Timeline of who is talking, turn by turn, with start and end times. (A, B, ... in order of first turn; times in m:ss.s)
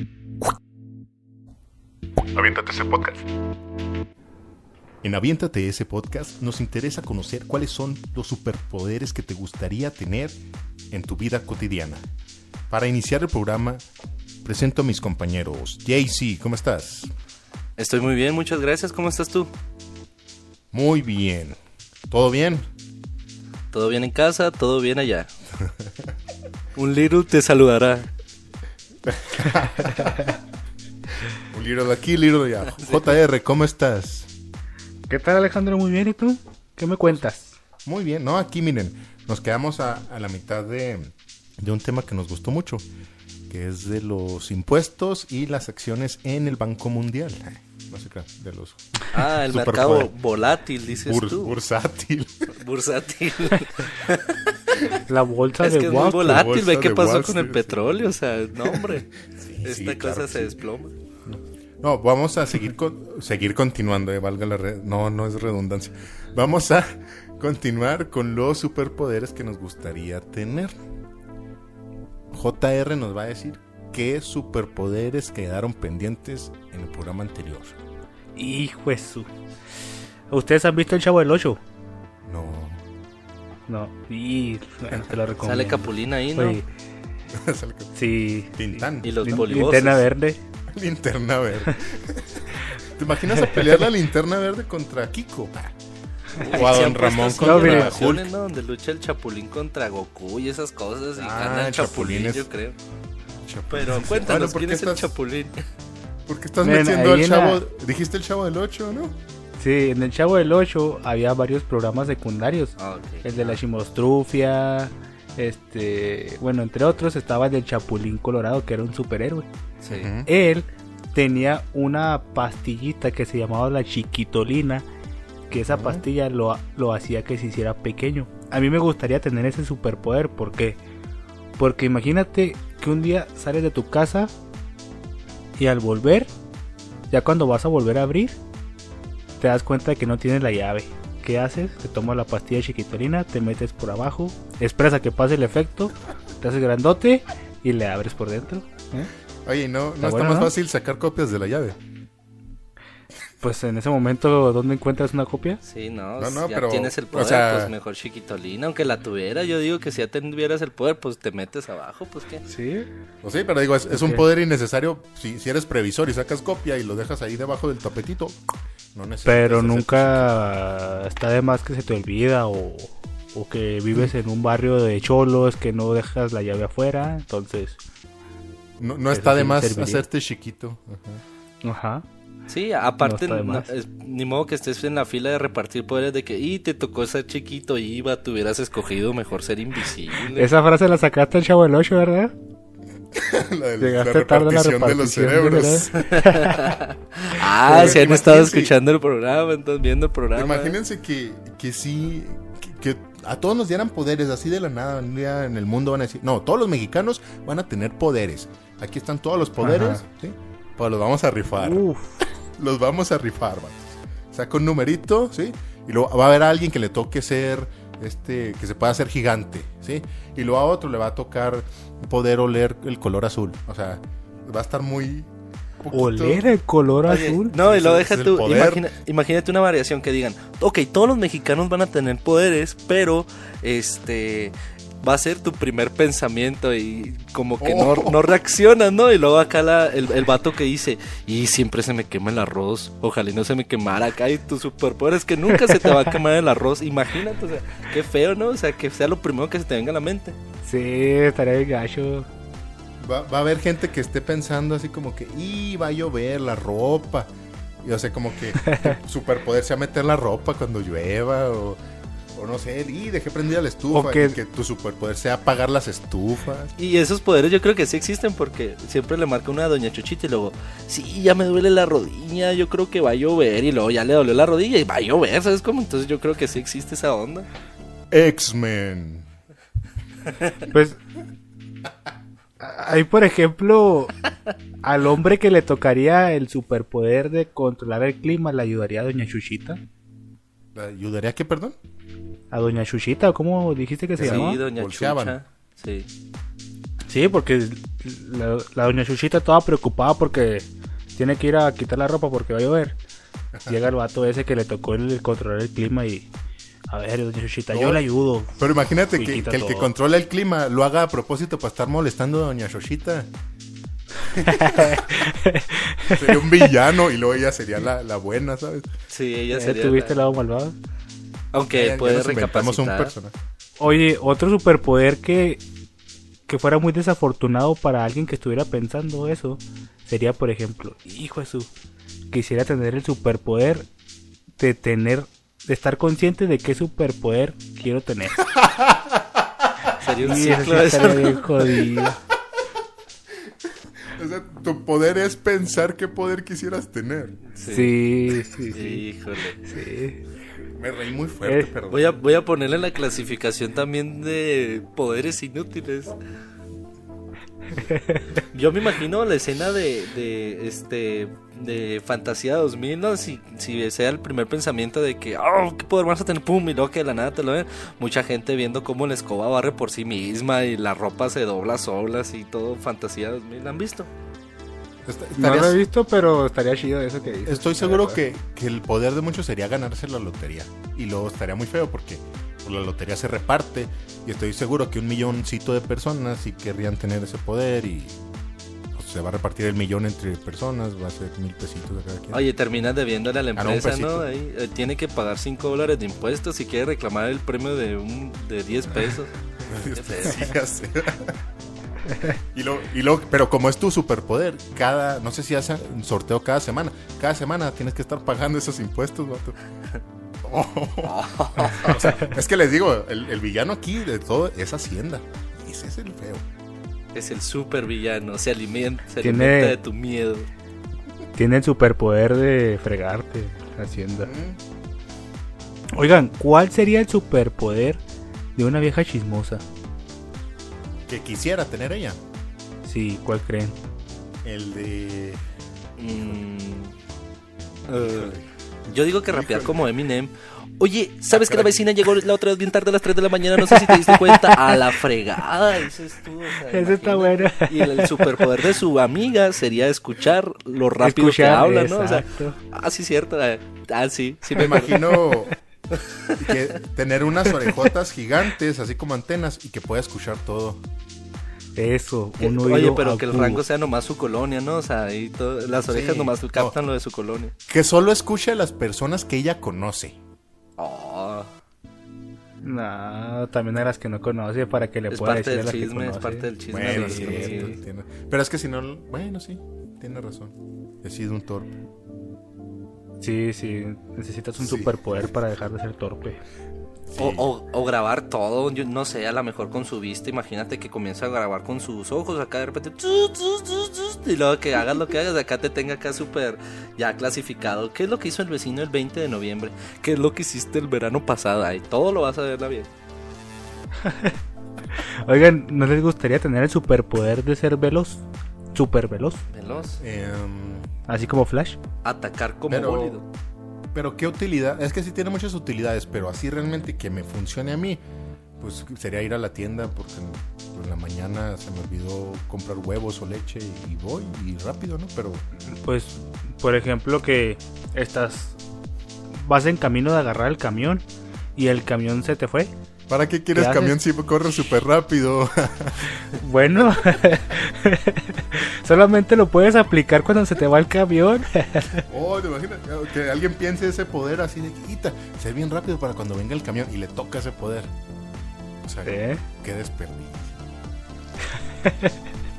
0:02.3-0:03.2 A
0:05.0-0:10.4 A
0:10.9-0:12.0 A
0:12.7-0:13.8 A
0:14.4-0:17.1 A
0:17.8-0:19.5 B
0:20.7-0:21.6 A
0:22.1-0:22.7 A
0:23.7-0:25.3 B
0:26.8-0:28.1 B
0:29.1-0:30.3 A
0:31.5-0:34.3 A
0:32.6-0:33.2 B
0:35.1-0:37.5 C
0:37.8-0:42.8 A
0:43.5-0:48.8 A
0:49.1-0:51.6 B
0:49.5-0:50.1 A
0:51.0-0:52.5 A
0:52.5-0:54.4 B
0:55.0-0:56.5 C
0:55.6-0:59.1 B
0:56.2-0:57.8 A
0:59.3-1:00.6 A
0:59.6-1:01.0 B
1:01.2-1:10.7 A
1:12.3-1:17.8 A
1:18.3-1:19.3 C
1:20.3-1:21.6 C
1:22.2-1:22.8 A
1:23.7-1:26.6 C
1:25.4-1:26.6 B
1:27.3-1:27.9 A
1:27.9-1:30.4 C
1:28.5-1:29.4 A
1:29.0-1:30.0 B
1:30.7-1:35.7 A
1:33.3-1:33.7 C
1:36.4-1:42.8 B
1:36.5-1:38.3 A
1:37.4-1:38.2 C
1:41.2-1:42.5 A
1:43.4-1:45.2 A
1:43.7-1:45.6 B
1:46.3-1:49.1 A
1:46.6-1:47.6 C
1:49.6-1:59.5 C
1:52.8-1:53.2 B
1:53.4-1:53.6 A
1:59.8-2:00.1 B
1:59.9-2:00.3 A
2:00.2-2:04.9 C
2:05.5-2:10.8 C
2:05.5-2:06.0 A
2:11.6-2:14.3 C
2:15.6-2:16.3 C
2:17.1-2:18.4 C
2:19.4-2:29.1 C
2:29.4-2:31.8 A
2:30.0-2:30.5 C
2:33.4-2:35.6 C
2:35.6-2:42.4 B
2:36.2-2:37.7 A
2:42.4-2:42.9 C
2:43.2-2:48.4 A
2:43.9-2:44.2 C
2:48.9-2:50.3 A
2:49.2-2:57.8 C
2:58.8-3:01.2 A
2:59.1-3:00.0 C
3:01.6-3:02.0 C
3:02.5-3:10.5 B
3:03.0-3:03.7 C
3:10.3-3:12.3 C
3:13.1-3:16.4 A
3:13.8-3:16.6 C
3:16.0-3:20.8 B
3:17.6-3:18.7 A
3:17.6-3:18.0 C
3:20.3-3:31.8 A
3:29.6-3:30.0 C
3:31.6-3:32.2 C
3:32.6-3:46.5 A
3:45.9-3:47.5 C
3:47.0-4:10.4 B
3:47.6-3:48.9 A
3:57.6-3:58.3 A
4:10.6-4:12.3 C
4:13.0-4:17.3 A
4:17.8-4:21.8 A
4:18.6-4:18.9 C
4:22.3-4:26.7 A
4:23.9-4:24.4 C
4:26.8-4:37.5 B
4:38.1-4:39.2 A
4:40.7-4:41.0 C
4:42.6-4:44.1 C
4:44.8-4:49.8 C
4:50.7-4:51.8 A
4:52.5-4:54.6 C
4:54.2-4:55.4 A
4:54.2-4:56.1 B
4:57.1-5:03.0 C
5:03.5-5:03.8 A
5:03.7-5:06.3 C
5:06.9-5:09.9 C
5:07.7-5:08.0 A
5:08.6-5:13.3 A
5:14.3-5:16.6 C
5:14.3-5:15.0 A
5:16.1-5:18.9 A
5:19.1-5:20.2 B
5:19.5-5:20.8 C
5:21.5-5:23.1 B
5:21.7-5:23.3 A
5:23.8-5:25.6 C
5:26.5-5:31.7 C
5:32.3-5:33.9 C
5:34.6-5:38.5 C
5:38.6-5:39.2 A
5:40.0-5:41.4 B
5:40.2-5:42.2 C
5:44.1-5:47.4 A
5:47.5-5:47.9 B
5:47.6-5:49.0 C
5:48.7-5:49.6 B
5:49.6-5:50.2 C
5:50.7-5:52.2 A
5:51.4-5:51.7 C
5:51.9-5:56.2 B
5:57.8-5:58.2 C
5:58.5-6:14.1 B
6:15.0-6:15.8 A
6:15.4-6:18.2 C
6:17.4-6:28.2 A
6:28.9-6:32.4 A
6:32.3-6:39.3 B
6:33.6-6:34.2 A
6:39.7-6:41.4 A
6:39.9-6:40.5 B
6:42.5-6:49.6 A
6:50.4-6:56.4 A
6:51.0-6:52.2 B
6:57.1-7:00.5 B
6:59.2-6:59.8 C
7:01.4-7:04.3 C
7:04.2-7:04.6 A
7:05.9-7:08.0 C
7:08.5-7:09.6 C
7:11.1-7:12.2 A
7:12.8-7:13.8 C
7:14.4-7:15.4 A
7:16.0-7:16.9 B
7:17.9-7:18.4 B
7:18.0-7:18.5 A
7:18.9-7:35.0 B
7:19.2-7:19.9 A
7:21.3-7:21.8 A
7:23.7-7:24.8 C
7:26.6-7:28.5 C
7:31.0-7:32.6 C
7:34.6-7:35.5 A
7:34.6-7:35.6 C
7:35.9-7:36.7 B
7:36.4-7:40.8 A
7:41.8-7:43.6 C
7:42.4-7:47.5 B
7:45.8-7:46.8 A
7:47.7-7:50.2 A
7:50.8-7:51.5 B
7:52.6-7:57.8 C
7:55.1-7:57.7 B
7:56.7-8:01.7 A
8:03.2-8:06.4 C
8:04.6-8:05.0 A
8:07.1-8:07.5 A
8:07.2-8:22.9 B
8:24.0-8:24.4 C
8:25.2-8:29.4 C
8:29.5-8:30.0 B
8:30.0-8:30.9 A
8:31.1-8:31.8 C
8:32.0-8:33.2 B
8:32.7-8:33.2 A
8:33.9-8:38.0 A
8:38.6-8:45.4 A
8:45.8-8:48.6 C
8:49.3-8:51.0 C
8:51.6-8:52.7 C
8:53.1-8:56.2 A
8:53.5-8:54.0 C
8:56.3-9:02.0 C
9:02.1-9:07.9 A
9:08.8-9:10.6 A
9:09.0-9:09.4 C
9:11.8-9:12.1 C